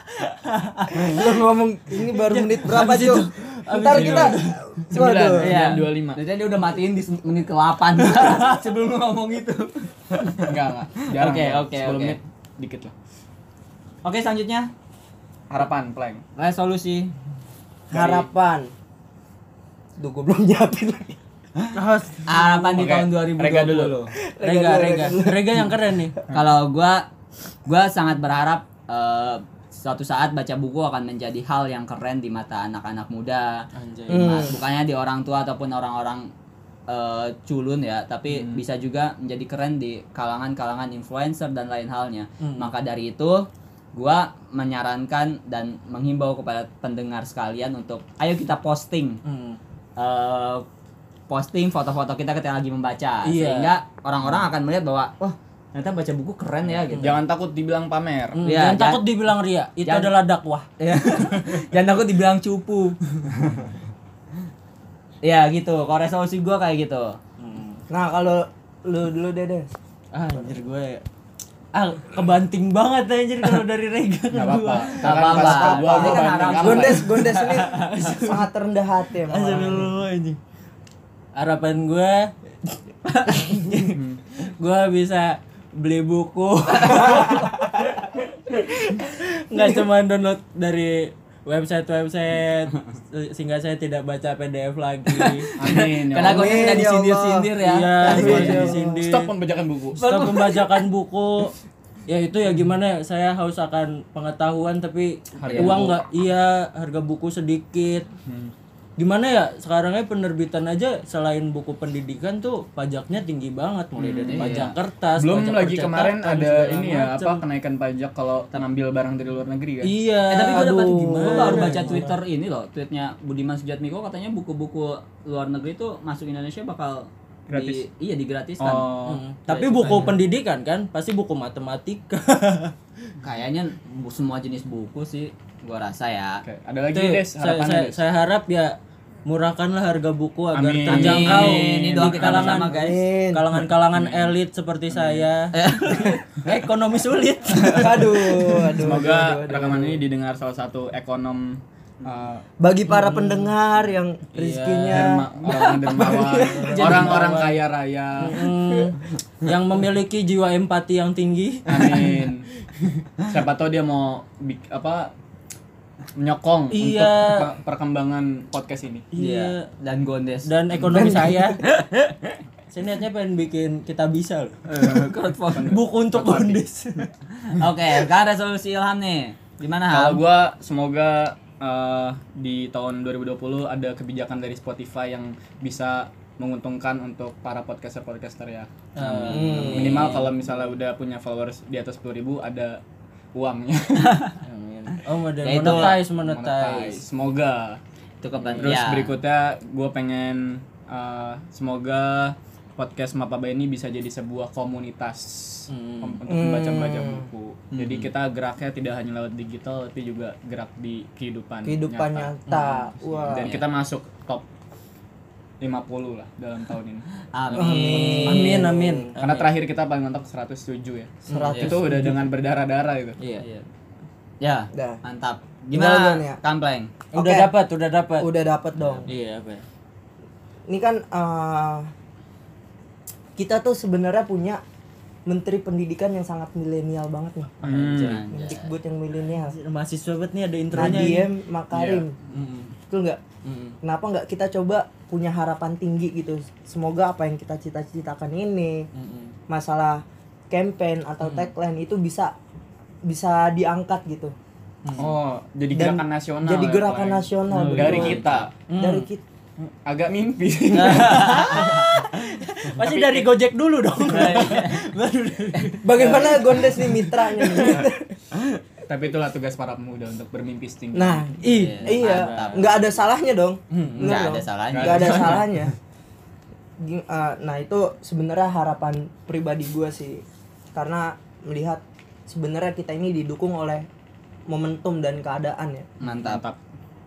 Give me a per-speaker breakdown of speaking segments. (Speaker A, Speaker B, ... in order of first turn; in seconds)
Speaker A: 0.5-1.2, 2.1-4.9, 21.8-22.8, 24.4-26.2, 33.7-34.5, 42.4-42.7, 49.2-49.6, 53.2-53.7, 56.9-57.2, 58.3-60.7, 67.4-67.8, 70.1-71.0, 71.7-75.3, 76.8-78.5, 79.2-80.4, 81.3-82.8, 83.3-87.7, 88.6-95.5, 97.6-99.3, 100.0-101.5, 102.1-108.1, 109.0-117.4, 119.8-122.1, 129.1-132.8, 136.9-145.6, 146.1-148.7, 152.9-153.6, 154.3-157.6, 158.2-162.2, 166.7-167.5, 169.1-169.7, 170.4-174.6, 175.7-177.1, 189.0-190.3, 194.4-197.1, 205.7-206.2, 212.5-212.9, 217.9-219.4, 221.3-222.0, 223.2-223.4, 227.1-228.3, 229.1-229.7, 239.5-241.3, 242.3-242.8, 243.4-243.8, 248.9-249.4, 251.2-251.5, 254.8-255.1, 257.6-257.9, 258.7-259.1, 260.7-267.9, 271.4-272.8, 273.7-274.2
Speaker B: 0.9-5.6, 17.9-18.7, 20.0-21.2, 24.3-25.7, 34.1-34.6, 67.9-69.7, 75.3-80.0, 96.2-97.5, 98.0-99.0, 120.9-122.0, 142.8-143.5, 147.7-150.0, 152.6-157.1, 170.9-171.6, 189.3-190.2, 206.3-207.3, 211.7-213.5, 217.6-219.1, 221.3-222.1, 224.7-225.0, 225.7-226.4, 227.1-227.5, 228.2-229.1, 230.7-231.9, 233.4-234.6, 235.3-237.6, 238.3-239.6, 240.7-242.2, 242.9-243.2, 243.8-248.9, 249.5-252.3, 253.0-254.3, 255.7-258.2, 258.8-259.2, 265.8-268.2, 270.9-275.8, 276.8-283.9, 284.5-285.9
Speaker C: 3.9-6.2, 10.5-12.9, 15.5-16.2, 17.9-18.2, 22.8-24.0, 38.3-38.6, 56.9-58.4, 74.3-77.2, 83.9-84.2, 95.6-96.9, 98.1-100.4, 105.4-106.0, 108.2-108.5, 114.0-120.0, 127.5-127.8, 128.6-129.2, 136.4-138.0, 140.5-142.7, 143.6-144.4, 144.9-145.3, 148.8-152.4, 154.9-158.5, 161.7-162.5, 163.3-165.1, 166.2-169.1, 175.5-176.7, 179.9-192.8, 193.3-194.2, 195.7-197.8, 198.4-212.3, 213.0-214.4, 215.6-217.8, 219.2-223.2, 237.6-238.2, 241.7-242.1, 255.0-258.5, 259.8-261.9, 262.8-263.3, 266.1-266.5, 268.9-271.4, 274.7-275.5, 286.0-286.6
Speaker D: 5.4-10.5, 11.1-12.2, 14.0-14.7, 16.4-17.1, 22.3-24.1, 26.3-27.1, 27.7-33.6, 34.1-36.3, 36.9-49.2, 50.0-50.6, 51.3-57.2, 58.4-59.0, 59.8-60.1, 60.8-63.0, 65.2-67.2, 75.0-77.7, 83.1-83.6, 86.9-87.4, 95.3-98.5, 100.1-100.8, 105.5-105.8, 114.3-114.8, 120.3-128.9, 129.5-130.2, 133.2-136.4, 140.9-143.0, 145.5-146.2, 155.4-156.1, 156.7-157.3, 169.2-170.5, 174.7-175.7, 177.5-180.2, 189.0-189.8, 195.4-196.0, 198.2-199.2, 207.7-208.1, 213.3-213.7, 217.3-218.7, 223.4-223.7, 224.4-226.9, 237.6-238.7, 257.6-258.5, 261.0-261.8, 264.1-264.8, 271.5-272.9, 274.0-275.3, 286.0-286.4